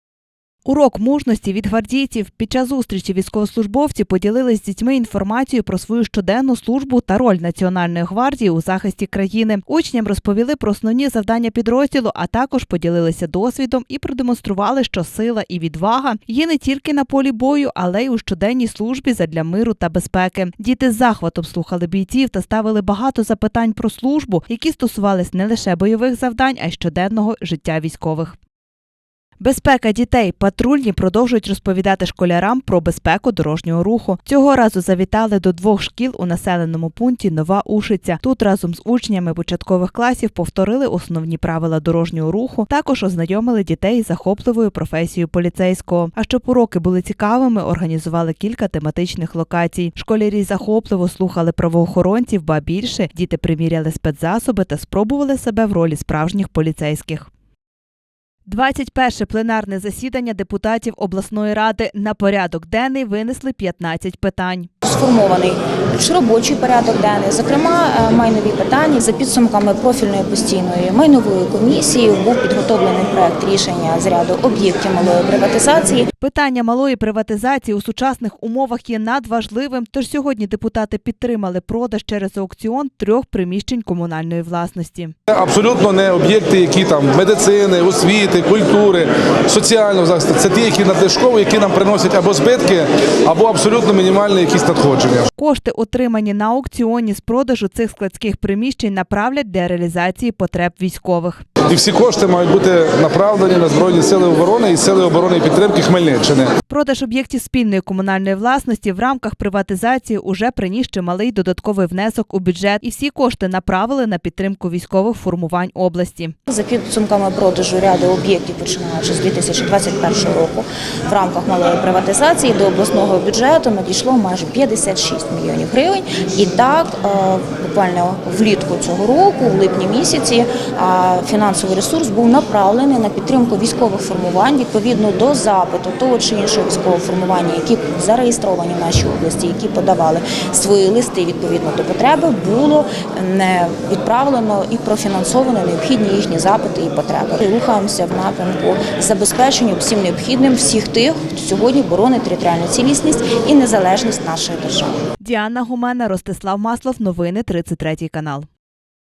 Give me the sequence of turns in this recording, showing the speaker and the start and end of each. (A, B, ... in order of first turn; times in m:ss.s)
0:00.7-0:28.4 A
0:29.4-0:57.3 A
0:58.5-1:04.7 A
1:04.8-1:16.1 B
1:16.2-1:25.1 A
1:25.3-1:35.3 C
1:35.4-1:41.4 A
1:41.7-1:46.5 C
1:46.7-1:56.4 A
1:56.5-2:35.0 B
2:35.2-2:38.5 A